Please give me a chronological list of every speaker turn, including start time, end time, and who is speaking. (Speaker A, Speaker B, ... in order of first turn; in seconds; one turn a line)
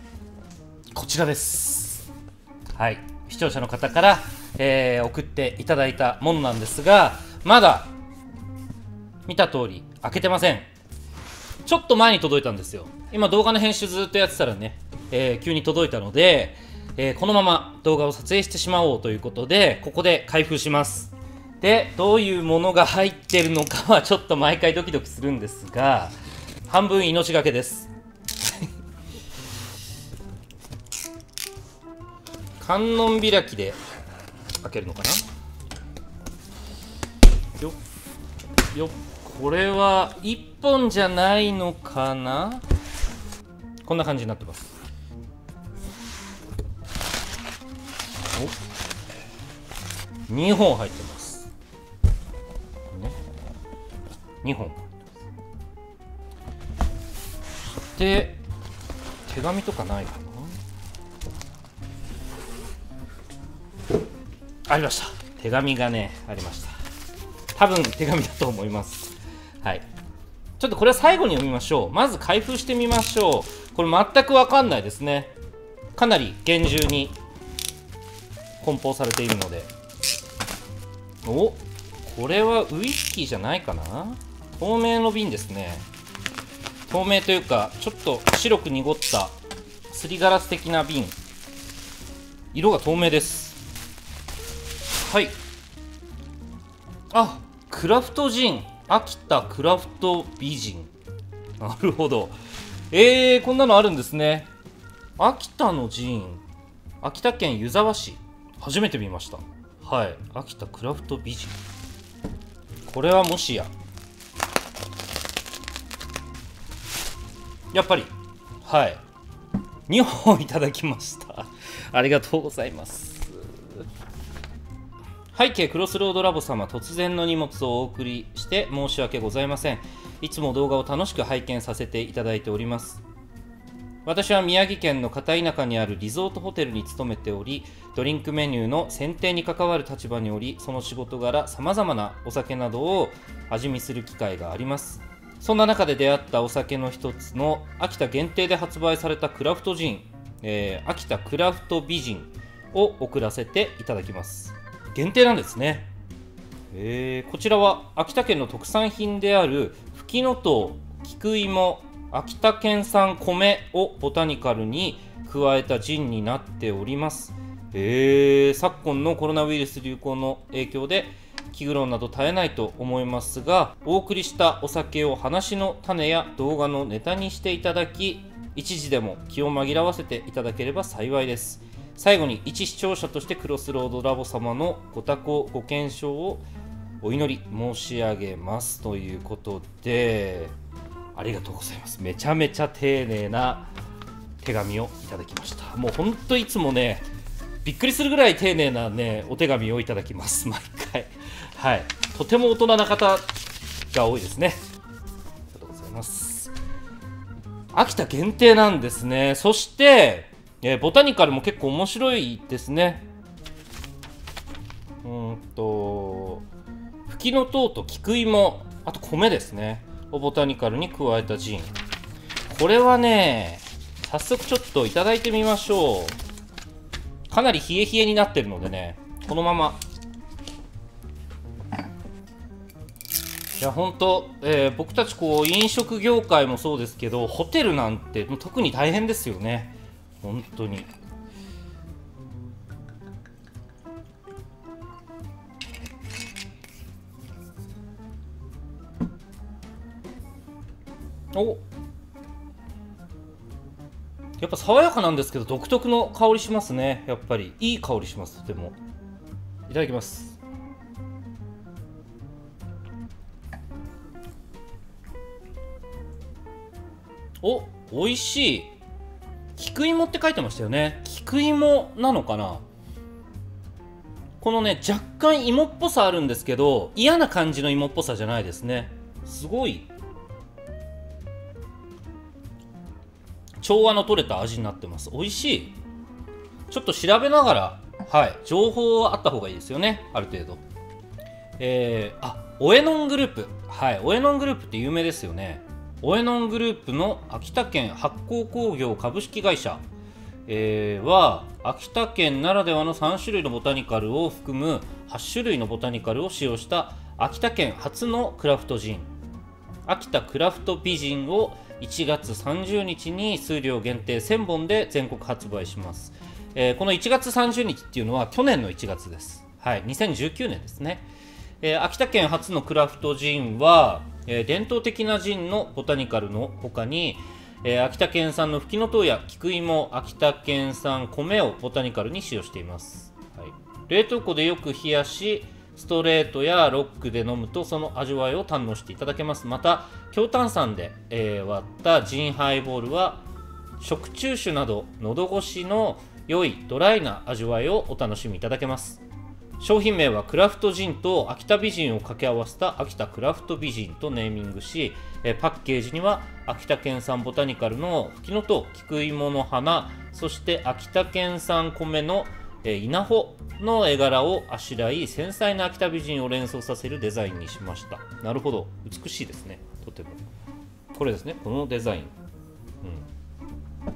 Speaker A: 0.9-2.1
Speaker A: 2.8-7.9
Speaker A: 9.3-10.7
Speaker A: 11.6-26.1
Speaker A: 26.6-27.9
Speaker A: 32.6-33.8
Speaker A: 34.6-35.2
Speaker A: 38.7-42.6
Speaker A: 43.8-44.7
Speaker A: 50.3-51.5
Speaker A: 52.9-53.2
Speaker A: 54.4-54.9
Speaker A: 57.9-58.4
Speaker A: 59.2-60.6
Speaker A: 64.7-66.7
Speaker A: 67.5-69.8
Speaker A: 70.6-75.3
Speaker A: 76.0-77.2
Speaker A: 78.6-79.7
Speaker A: 81.2-85.8
Speaker A: 86.9-89.3
Speaker A: 89.9-91.2
Speaker A: 92.5-93.6
Speaker A: 95.0-95.3
Speaker A: 97.1-100.9
Speaker A: 101.6-102.3
Speaker A: 102.9-104.5
Speaker A: 105.2-106.4
Speaker A: 107.0-111.6
Speaker A: 112.9-113.7
Speaker A: 117.7-118.1
Speaker A: 118.6-119.0
Speaker A: 119.9-123.5
Speaker A: 125.3-133.0
Speaker A: 134.0-155.9
Speaker A: 156.7-186.4
Speaker A: 187.0-190.5
Speaker A: 191.1-193.7
Speaker A: 194.4-197.1
Speaker A: 197.6-204.6
Speaker A: 205.5-206.5
Speaker A: 207.7-213.1
Speaker A: 215.0-216.4
Speaker A: 217.1-221.7
Speaker A: 222.5-226.2
Speaker A: 227.3-229.8
Speaker A: 233.6-240.9
Speaker A: 251.3-251.6
Speaker A: 254.4-258.8
Speaker A: 259.7-260.4
Speaker A: 267.4-268.7
Speaker A: 269.6-272.6
Speaker A: 274.4-279.9
Speaker A: 283.6-285.7
Speaker A: 286.7-290.6
Speaker A: 291.6-299.8
Speaker A: 300.5-309.1
Speaker A: 309.9-321.1
Speaker A: 321.6-343.2
Speaker A: 343.8-349.0
Speaker A: 349.6-370.2
Speaker A: 370.9-372.1
Speaker A: 372.8-373.1